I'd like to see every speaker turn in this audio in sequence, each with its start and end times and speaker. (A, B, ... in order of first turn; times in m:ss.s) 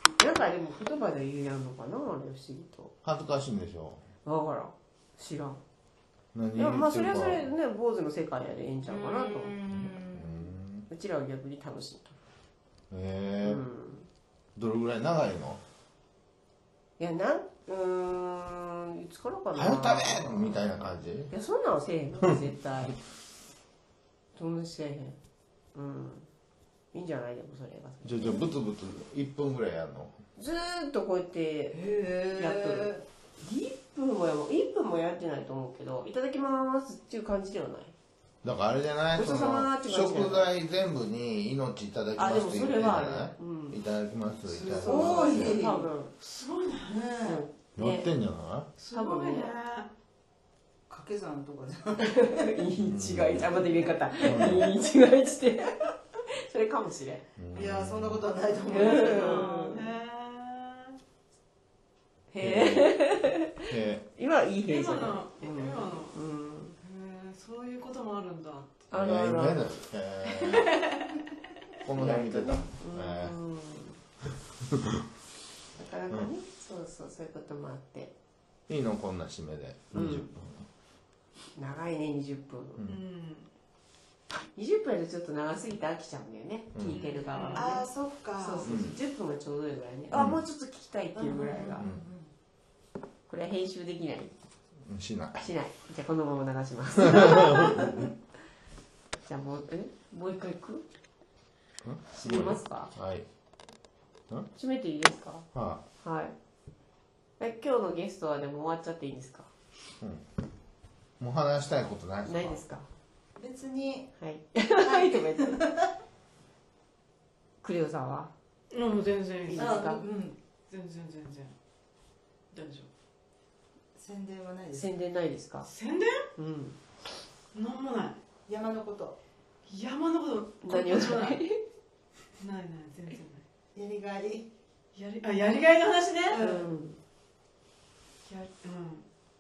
0:00.2-0:02.9 A
0:03.0-0:04.0 B
0:04.2-0:05.6 A
0:06.3-0:07.5 B
0:06.6-0:09.6 A
0:08.9-0:10.5 C
0:09.7-0:10.9 B
0:10.9-0:12.2 A
0:12.9-0:13.6 B
0:13.4-0:14.1 A
0:14.6-0:15.6 B
0:17.0-0:20.6 A
0:19.6-0:21.3 B
0:21.3-0:23.0 A
0:24.4-0:25.2 A
0:25.7-0:26.3 A
0:26.9-0:28.5 A
0:28.0-0:30.2 B
0:30.4-0:37.9 A
0:31.7-0:33.0 C
0:38.4-0:45.6 B
0:39.2-0:40.5 A
0:42.2-0:43.8 A
0:44.5-0:45.9 C
0:44.8-0:46.1 A
0:46.2-0:47.0 D
0:46.9-0:47.4 C
0:47.2-0:48.1 A
0:47.8-0:48.7 B
0:48.8-0:49.9 D
0:48.9-0:49.6 A
0:50.9-0:52.6 C
0:52.0-0:55.9 A
0:52.8-0:53.6 B
0:54.2-0:54.7 B
0:54.3-0:54.6 C
0:56.5-0:57.2 A
0:57.4-0:58.2 B
0:57.5-0:59.8 C
0:58.7-1:01.0 D
0:58.7-0:59.9 A
1:02.3-1:06.8 A
1:02.4-1:03.0 B
1:03.7-1:04.1 B
1:04.7-1:06.2 D
1:06.8-1:08.8 D
1:08.9-1:09.8 A
1:08.9-1:10.8 B
1:10.4-1:11.2 D
1:11.8-1:13.4 B
1:11.9-1:14.0 A
1:14.6-1:15.0 B
1:15.8-1:18.1 A
1:18.7-1:20.7 B
1:19.9-1:20.3 A
1:21.6-1:22.8 A
1:22.8-1:23.5 D
1:24.5-1:27.8 A
1:26.7-1:27.0 B
1:27.1-1:27.8 D
1:27.5-1:28.7 C
1:28.4-1:31.9 A
1:28.6-1:29.0 B
1:30.1-1:30.4 B
1:31.2-1:32.3 C
1:31.8-1:32.0 B
1:33.3-1:34.3 A
1:34.9-1:35.5 B
1:35.4-1:38.0 A
1:37.0-1:38.0 B
1:39.3-1:40.8 A
1:41.8-1:43.3 B
1:42.1-1:42.9 A
1:44.6-1:45.5 A
1:45.5-1:45.8 B
1:46.0-1:46.3 A
1:47.4-1:49.5 A
1:51.2-1:52.6 B
1:52.2-1:52.9 A
1:53.4-1:54.1 C
1:54.2-1:55.6 A
1:54.8-1:55.9 C
1:57.6-1:58.3 A
1:58.7-1:59.9 D
1:59.5-2:00.0 A
1:59.5-2:00.4 C
2:00.7-2:01.5 D
2:02.5-2:02.9 D
2:04.0-2:04.9 C
2:04.7-2:05.7 A
2:05.7-2:06.2 D
2:06.4-2:06.8 A
2:07.5-2:08.2 D
2:08.5-2:09.2 C
2:09.7-2:11.4 D
2:10.6-2:11.6 A
2:12.4-2:13.4 D
2:13.8-2:14.5 C
2:14.9-2:16.6 D
2:16.4-2:17.0 A
2:18.3-2:19.0 D